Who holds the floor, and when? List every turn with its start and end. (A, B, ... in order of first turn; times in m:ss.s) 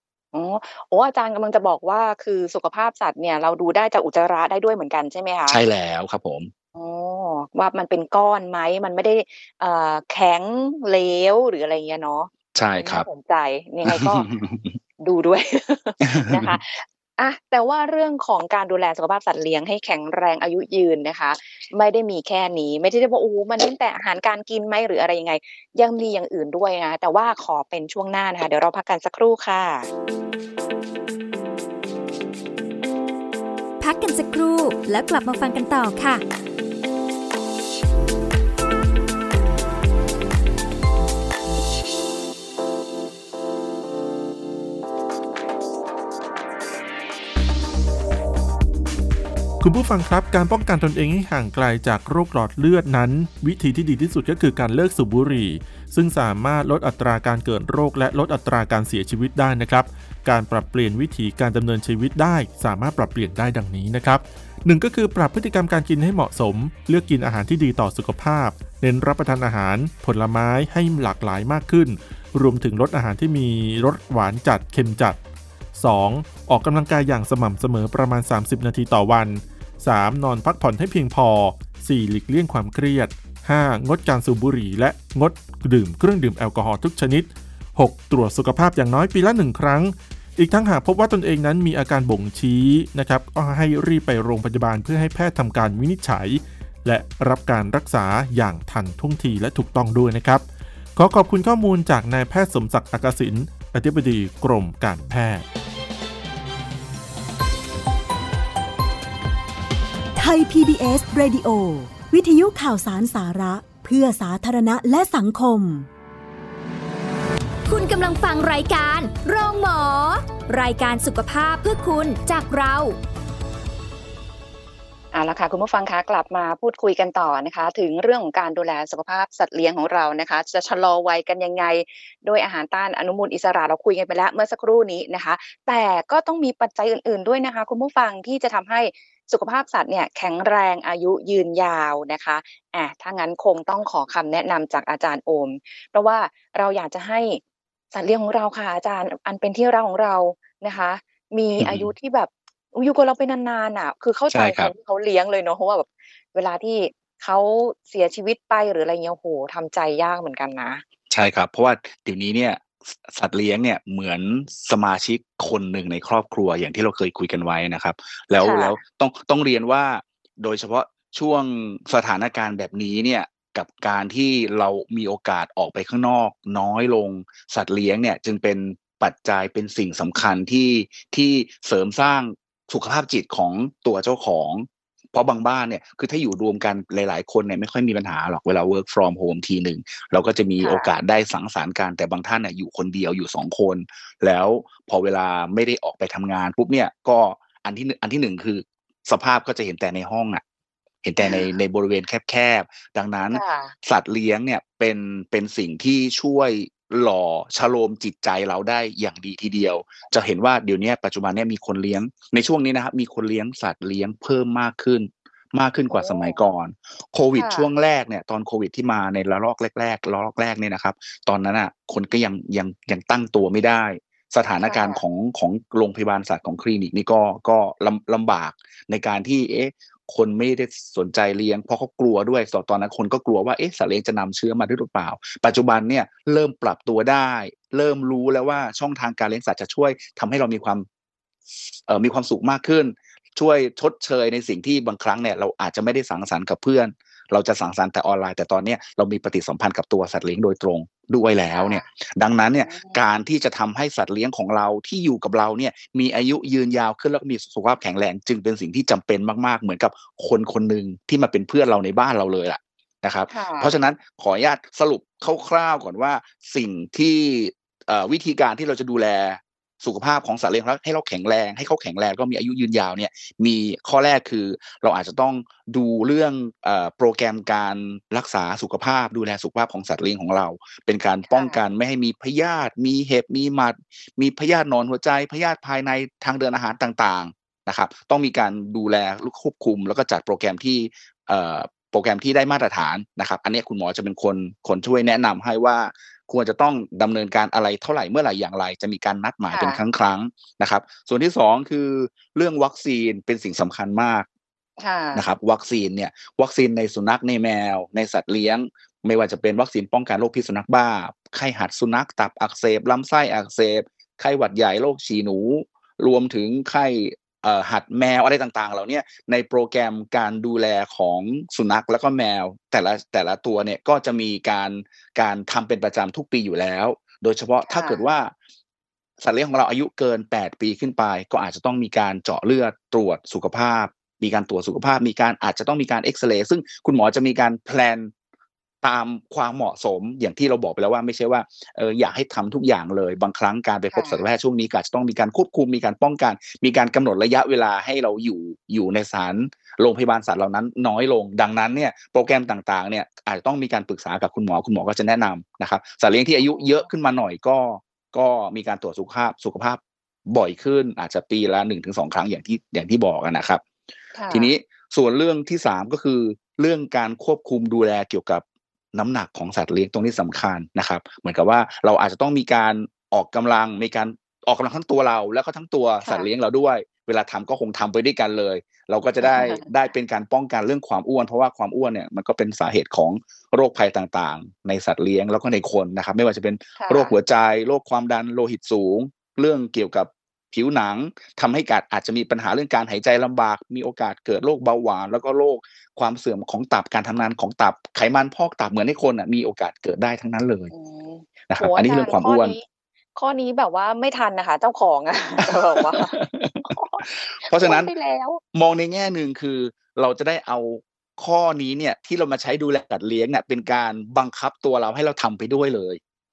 0:00.3-0:05.6 A
0:05.5-0:06.5 B
0:06.8-0:14.3 A
0:12.5-0:13.1 B
0:13.8-0:14.8 B
0:15.0-0:29.9 A
0:16.0-0:16.6 B
0:33.8-0:36.2 C
0:49.6-1:15.2 D
1:15.7-1:40.4 D
1:41.0-1:45.4 D
1:50.1-1:55.9 E
1:57.7-2:03.0 C
2:05.1-2:27.4 A
2:27.9-2:40.8 A
2:31.6-2:31.9 B
2:34.3-2:34.7 B
2:41.1-3:20.4 B
2:48.4-2:48.8 A
3:10.6-3:10.9 A
3:21.0-4:00.8 B
3:21.2-3:21.5 A
3:23.3-3:23.7 A
3:35.9-3:36.4 A
3:37.3-3:37.7 A
3:44.6-3:45.0 A
4:01.8-5:04.3 B
4:11.5-4:11.8 A
4:12.6-4:13.0 A
4:23.3-4:23.8 A
4:41.3-4:41.6 A
4:59.5-4:59.8 A
5:04.8-5:05.2 A
5:05.1-5:28.3 B
5:27.6-5:28.0 A
5:29.2-5:38.1 B
5:38.8-6:03.6 B
5:43.9-5:44.2 A
5:56.4-5:56.8 A
6:04.1-6:04.5 A
6:04.3-6:40.7 B
6:19.2-6:19.6 A
6:26.8-6:27.1 A
6:40.7-6:42.6 A
6:41.5-6:42.6 B
6:43.1-6:48.4 A
6:45.4-6:47.9 B
6:48.5-6:56.0 B